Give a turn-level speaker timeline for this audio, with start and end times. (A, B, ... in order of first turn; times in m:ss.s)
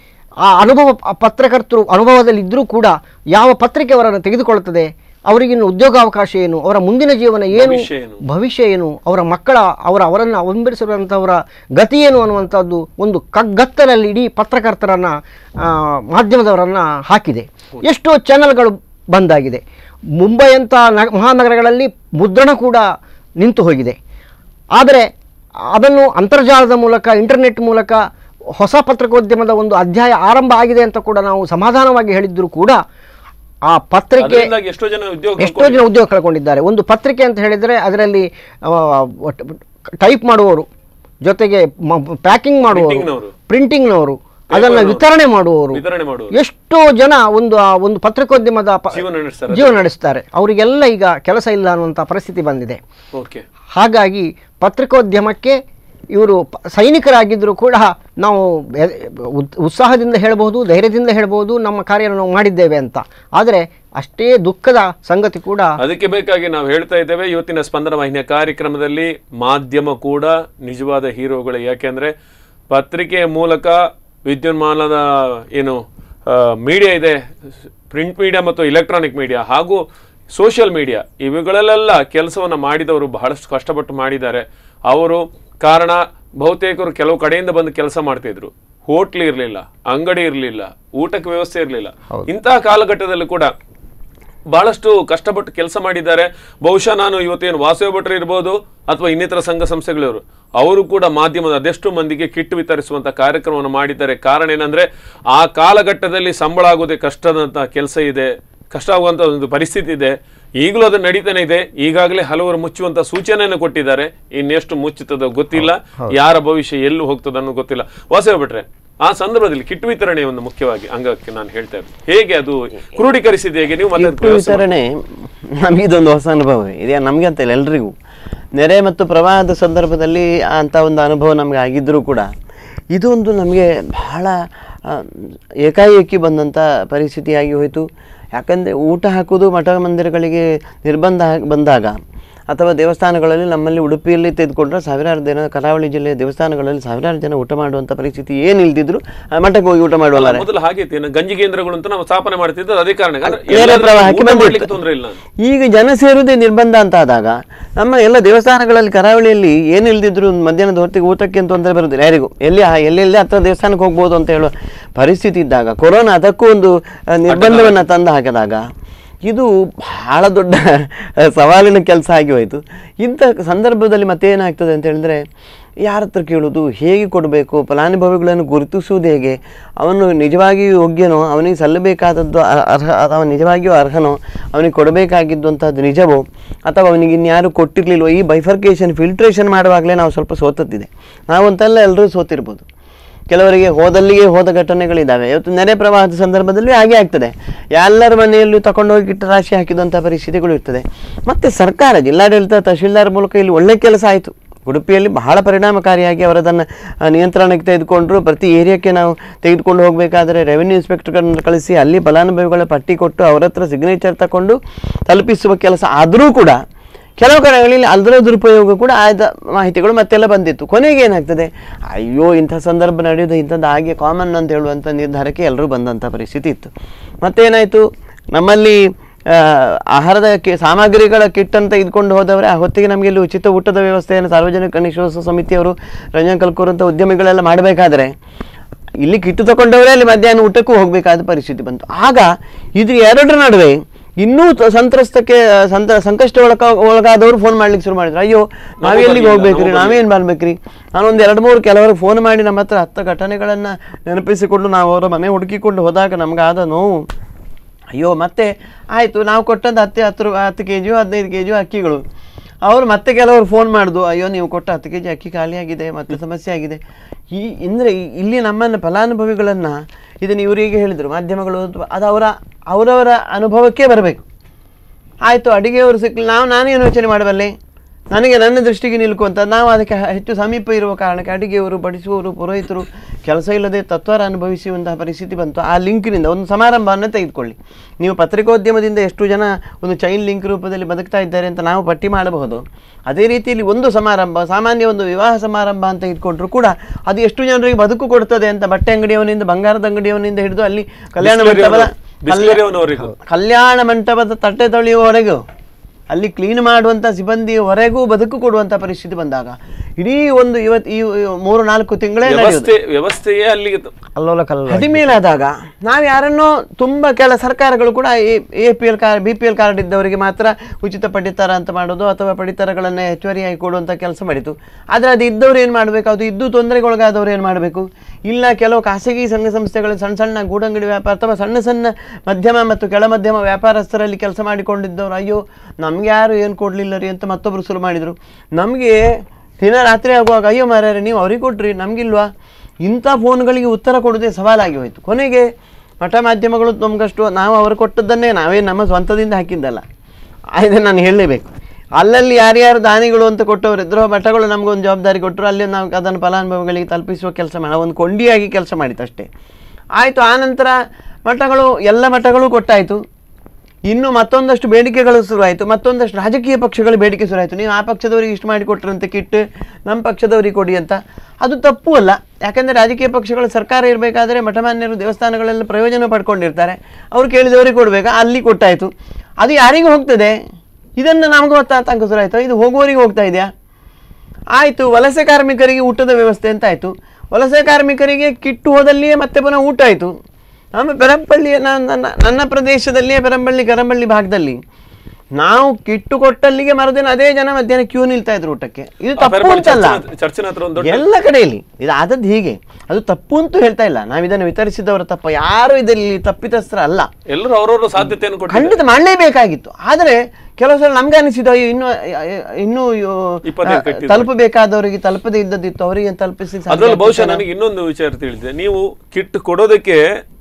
0:00.4-0:19.6 A
0:07.5-0:08.2 B
0:20.2-0:22.8 A
0:23.4-0:24.0 A
0:24.8-0:25.1 A
0:25.7-0:28.0 A
0:28.6-0:32.8 A
0:33.7-0:34.5 A
0:34.2-0:35.8 B
0:35.4-0:40.7 A
0:41.2-0:45.8 A
0:42.7-0:43.3 B
0:44.5-0:45.0 B
0:45.7-0:46.3 B
0:46.3-0:52.8 A
0:48.9-0:49.8 B
0:53.1-0:53.4 B
0:53.8-0:55.6 A
0:56.1-1:05.8 A
1:05.8-1:12.1 B
1:12.7-1:17.2 B
1:17.9-1:33.5 B
1:34.5-2:04.6 B
1:55.6-1:56.1 A
2:04.0-2:07.9 C
2:08.6-2:12.3 C
2:12.9-2:14.3 C
2:14.8-2:17.8 C
2:18.4-2:21.9 C
2:22.5-2:30.4 C
2:30.1-2:35.2 B
2:33.2-2:34.7 C
2:35.4-2:48.6 C
2:47.3-2:47.8 B
2:49.2-2:55.2 C
2:55.8-3:12.6 C
3:13.3-3:34.6 C
3:35.1-3:36.6 C
3:37.2-3:46.7 C
3:47.2-3:58.1 C
3:59.0-4:17.1 C
4:08.8-4:10.0 B
4:17.9-4:22.0 C
4:22.6-4:34.2 C
4:35.2-4:37.5 C
4:38.1-5:02.6 C
5:01.2-5:03.1 B
5:03.2-5:05.4 C
5:06.1-5:12.7 C
5:12.2-5:13.9 B
5:14.2-5:39.0 C
5:39.6-5:42.3 C
5:42.8-5:45.5 C
5:46.0-5:49.8 C
5:50.6-5:59.3 C
6:00.0-6:00.7 C
6:01.2-6:03.0 C
6:03.9-6:20.4 C
6:21.0-6:23.5 C
6:24.5-6:30.1 C
6:30.8-6:34.6 C
6:35.4-6:40.0 C
6:39.2-6:41.0 B
6:40.8-6:47.1 C
6:47.3-6:48.8 B
6:48.0-6:57.4 C
6:53.5-6:54.3 B
6:56.7-7:00.0 B